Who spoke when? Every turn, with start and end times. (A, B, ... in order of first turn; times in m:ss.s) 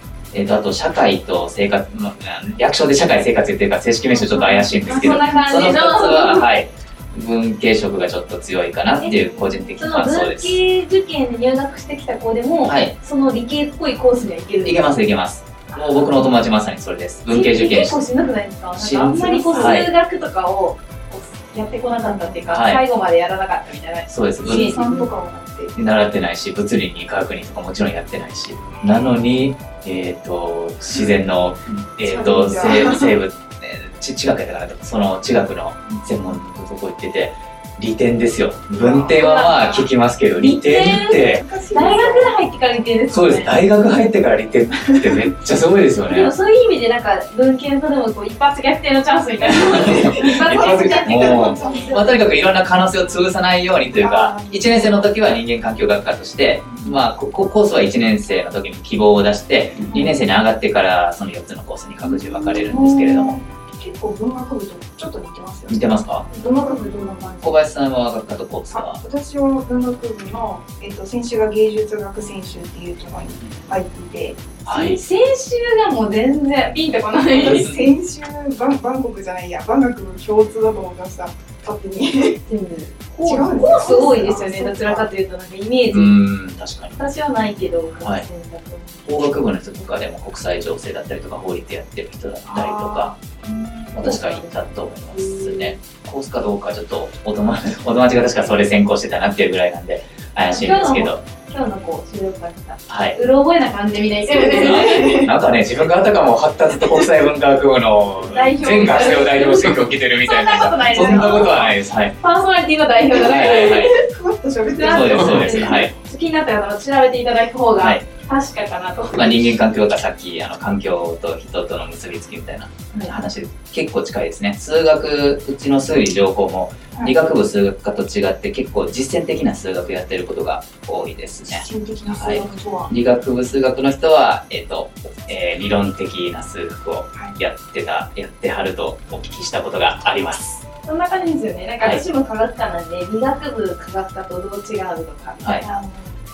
0:00.3-0:10.6 A
0:04.2-0:04.7 B
0:04.5-0:06.5 C
0:09.0-0:14.9 C
0:12.7-0:12.9 A
0:14.6-0:18.0 A
0:17.3-0:25.1 C
0:18.8-0:19.9 A
0:19.2-0:19.8 B
0:21.8-0:22.4 B
0:22.5-0:22.8 A
0:24.1-0:24.8 A
0:24.4-0:25.8 B
0:25.7-0:41.4 A
0:28.8-0:29.2 B
0:32.0-0:33.2 B
0:38.7-0:39.2 B
0:39.1-0:43.6 C
0:41.1-0:42.4 B
0:43.1-0:46.3 A
0:44.9-0:45.2 B
0:46.1-0:52.1 C
0:49.5-1:03.4 A
0:49.6-0:52.2 B
0:54.0-0:55.0 B
0:59.8-1:00.1 B
1:02.0-1:07.6 B
1:05.7-1:06.3 A
1:07.4-1:09.0 A
1:08.7-1:14.6 B
1:14.6-1:15.0 A
1:14.6-1:17.7 C
1:17.3-1:17.8 A
1:17.4-1:22.4 B
1:22.5-1:26.2 C
1:23.2-1:25.1 B
1:25.9-1:27.0 A
1:27.0-1:29.1 C
1:29.0-1:33.1 A
1:32.5-1:33.8 B
1:33.9-1:35.7 C
1:33.9-1:41.2 A
1:40.5-1:45.3 C
1:42.9-1:43.2 A
1:44.4-1:52.1 A
1:44.7-1:45.2 B
1:48.2-1:54.0 C
1:50.8-1:51.6 B
1:53.1-1:54.0 A
1:53.6-1:55.8 B
1:54.7-1:59.5 C
1:54.8-1:55.9 A
1:57.8-1:58.0 A
1:59.1-2:20.6 A
2:02.9-2:03.2 C
2:11.5-2:12.9 B
2:20.8-2:25.8 C
2:25.6-2:26.1 B